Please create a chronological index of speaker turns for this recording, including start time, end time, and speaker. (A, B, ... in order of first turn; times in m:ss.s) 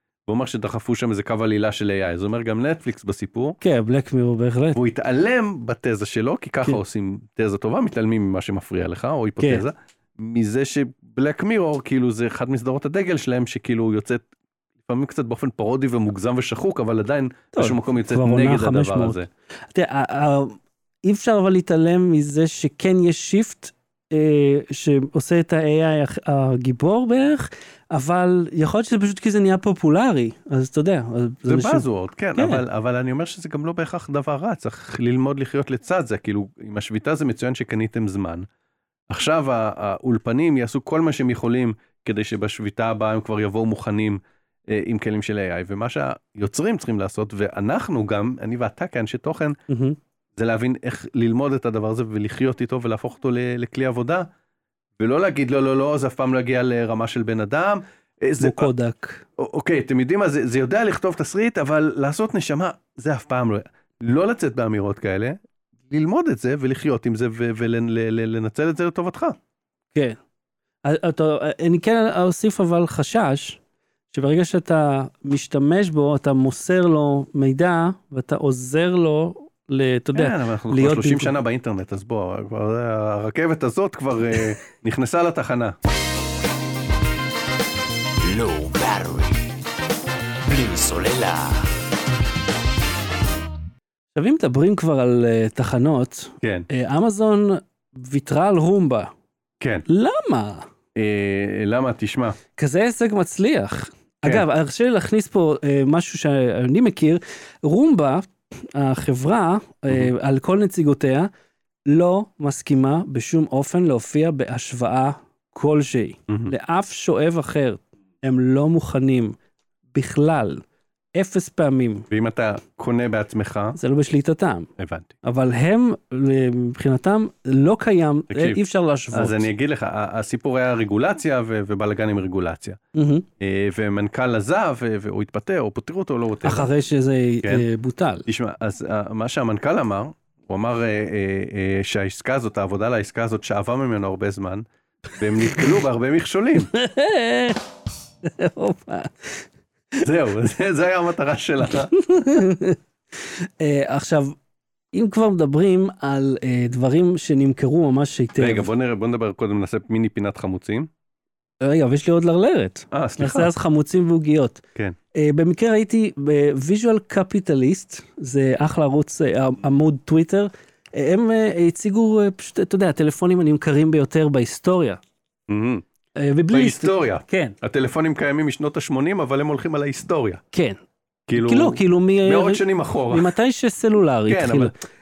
0:00.3-0:03.6 A
0:03.6-0:04.8 B
0:04.8-0:14.2 A
0:09.4-0:09.6 B
0:14.9-0:19.3 A
0:17.5-0:19.2 B
0:19.7-0:32.6 B
0:31.5-0:38.5 A
0:39.1-0:49.6 A
0:49.7-0:50.0 B
0:50.4-0:54.3 A
0:55.0-0:58.7 A
0:58.4-0:59.2 B
0:59.4-1:09.4 A
1:10.8-1:13.6 B
1:14.1-1:21.3 B
1:20.1-1:25.8 A
1:28.2-1:29.5 C
1:30.4-1:31.7 C
1:34.2-1:39.1 B
1:36.4-1:36.7 A
1:39.6-1:39.9 A
1:39.9-1:40.7 B
1:41.0-1:42.4 A
1:42.6-1:51.3 B
1:51.9-1:59.4 B
1:56.3-1:56.5 A
1:59.9-2:00.6 B
2:01.2-2:02.1 B
2:02.1-2:03.8 A
2:03.8-2:04.7 B
2:04.8-2:05.1 A
2:05.2-2:09.5 B
2:08.3-2:08.6 A
2:09.1-2:12.8 A
2:12.9-2:13.2 B
2:13.4-2:16.7 A
2:16.4-2:18.3 B
2:18.3-2:26.7 A
2:26.6-2:27.6 B
2:28.2-2:29.4 B
2:30.0-2:31.9 A
2:31.9-2:34.4 B
2:34.9-2:38.7 B
2:38.4-2:40.9 A
2:41.6-2:44.6 B
2:42.9-2:43.5 A
2:45.1-2:55.0 B
2:55.5-2:55.8 A
2:56.2-2:57.6 B
2:56.5-3:00.4 A
3:00.5-3:00.8 B
3:01.3-3:03.3 A
3:01.3-3:04.7 B
3:04.3-3:04.7 A